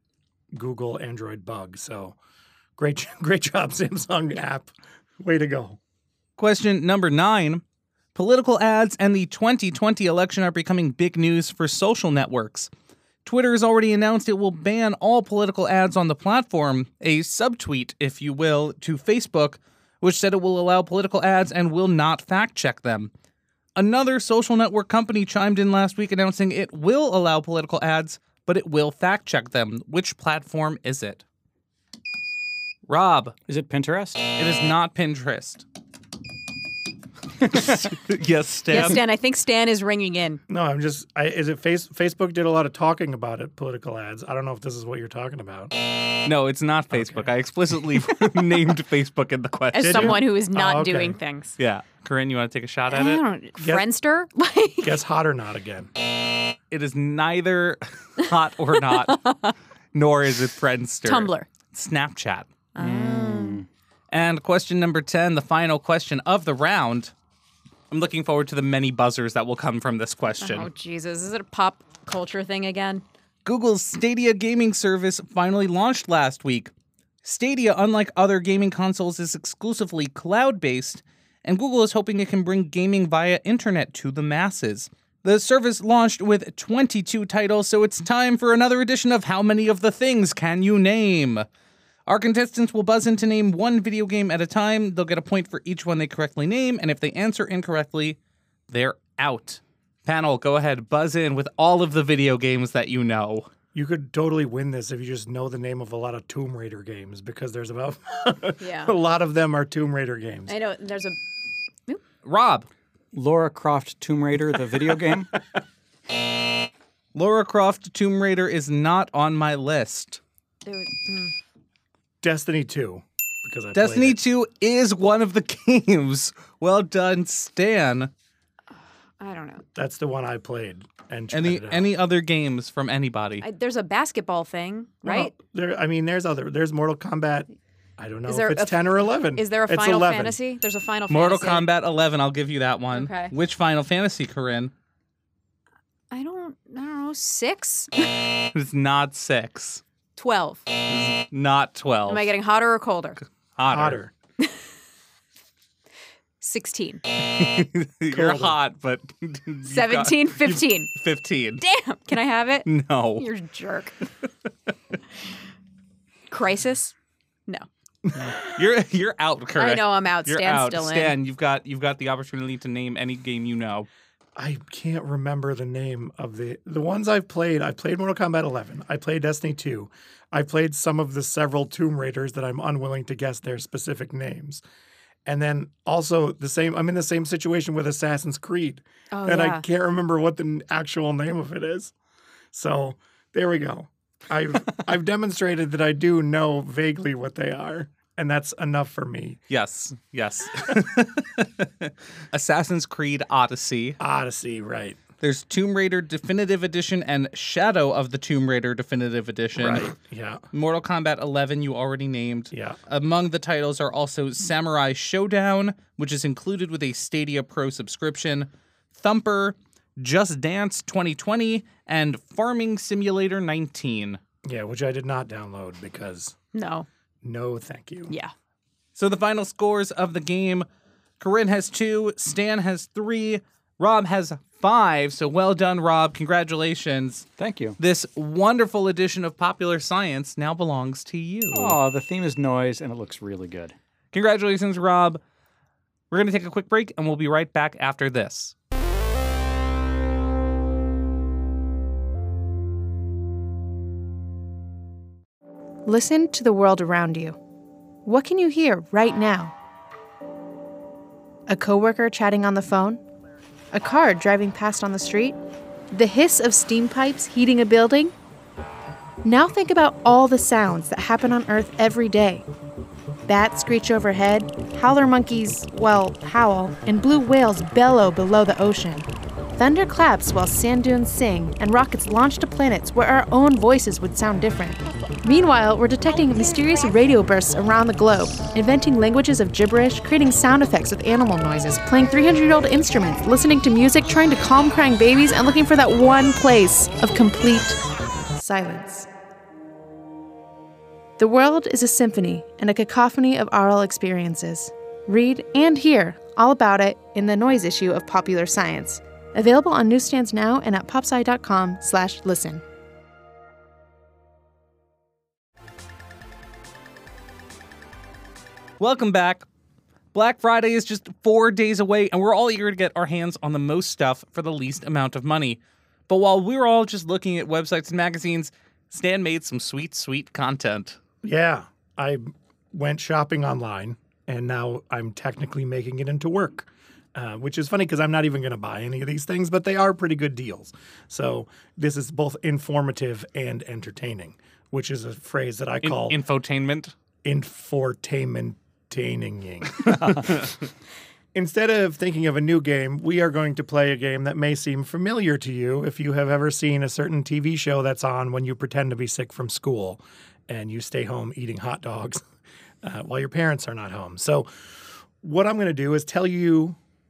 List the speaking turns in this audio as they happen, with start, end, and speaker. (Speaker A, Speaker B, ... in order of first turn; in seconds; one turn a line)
Speaker A: 0.5-2.2
Speaker A: 2.8-5.8
Speaker B: 6.4-7.6
Speaker B: 8.1-12.7
Speaker B: 13.2-23.1
Speaker B: 23.8-31.2
Speaker B: 32.9-33.4
Speaker C: 33.5-34.3
Speaker B: 34.4-35.6
Speaker B: 37.5-39.0
Speaker D: 38.7-40.4
Speaker A: 40.5-45.7
Speaker B: 46.2-50.2
Speaker A: 46.9-47.2
Speaker D: 49.7-51.6
Speaker A: 49.8-51.2
Speaker B: 51.6-53.2
Speaker D: 52.9-55.0
Speaker A: 53.6-53.9
Speaker A: 54.8-55.9
Speaker B: 56.7-59.3
Speaker D: 58.9-59.5
Speaker B: 59.9-62.5
Speaker D: 61.0-61.5
Speaker D: 62.8-63.6
Speaker C: 62.8-63.7
Speaker B: 64.1-67.1
Speaker B: 67.9-70.7
Speaker D: 70.4-73.0
Speaker B: 73.4-76.7
Speaker B: 77.2-91.5
Speaker B: 92.1-98.2
Speaker B: 98.7-103.5
Speaker A: 103.7-110.5
Speaker D: 108.6-108.9
Speaker D: 110.5-111.2
Speaker B: 112.2-112.7
Speaker C: 113.1-115.3
Speaker B: 117.1-120.2
Speaker D: 120.6-121.3
Speaker A: 122.2-124.2
Speaker B: 123.8-128.1
Speaker D: 129.2-129.6
Speaker A: 129.8-131.9
Speaker B: 131.3-133.4
Speaker D: 133.4-135.3
Speaker A: 135.0-140.4
Speaker D: 138.3-141.7
Speaker B: 141.1-144.7
Speaker D: 142.9-143.3
Speaker D: 146.1-148.1
Speaker B: 148.5-149.8
Speaker D: 150.2-150.6
Speaker B: 150.9-152.3
Speaker D: 152.1-153.2
Speaker B: 153.6-154.0
Speaker A: 153.7-154.1
Speaker D: 156.4-157.0
Speaker B: 157.3-161.6
Speaker A: 158.1-158.6
Speaker D: 159.7-160.9
Speaker D: 161.6-164.0
Speaker B: 162.7-163.3
Speaker D: 166.3-166.9
Speaker B: 168.4-173.9
Speaker D: 169.6-171.1
Speaker A: 174.4-184.6
Speaker A: 185.2-191.9
Speaker D: 189.1-189.6
Speaker A: 192.5-199.4
Speaker B: 199.5-204.0
Speaker A: 204.0-205.0
Speaker B: 205.2-209.9
Speaker A: 209.6-210.4
Speaker B: 210.5-224.2
Speaker A: 212.5-212.8
Speaker A: 224.4-226.4
Speaker D: 226.5-226.9
Speaker A: 227.2-228.1
Speaker B: 228.9-230.7
Speaker B: 231.2-237.3
Speaker C: 237.4-237.8
Speaker B: 237.8-241.8
Speaker C: 241.5-243.8
Speaker B: 244.1-245.2
Speaker B: 246.1-248.5
Speaker E: 255.9-257.4
Speaker E: 258.0-259.5
Speaker E: 261.5-263.0
Speaker E: 263.7-265.4
Speaker E: 265.9-268.1
Speaker E: 269.2-272.4
Speaker E: 273.2-297.8
Speaker E: 298.3-299.1
Speaker E: 301.2-312.6
Speaker B: 318.8-319.4
Speaker B: 320.1-331.0
Speaker A: 331.2-346.2
Speaker B: 345.8-346.9
Speaker A: 347.2-350.4
Speaker C: 350.0-350.3
Speaker A: 351.3-362.2
Speaker A: 362.8-366.8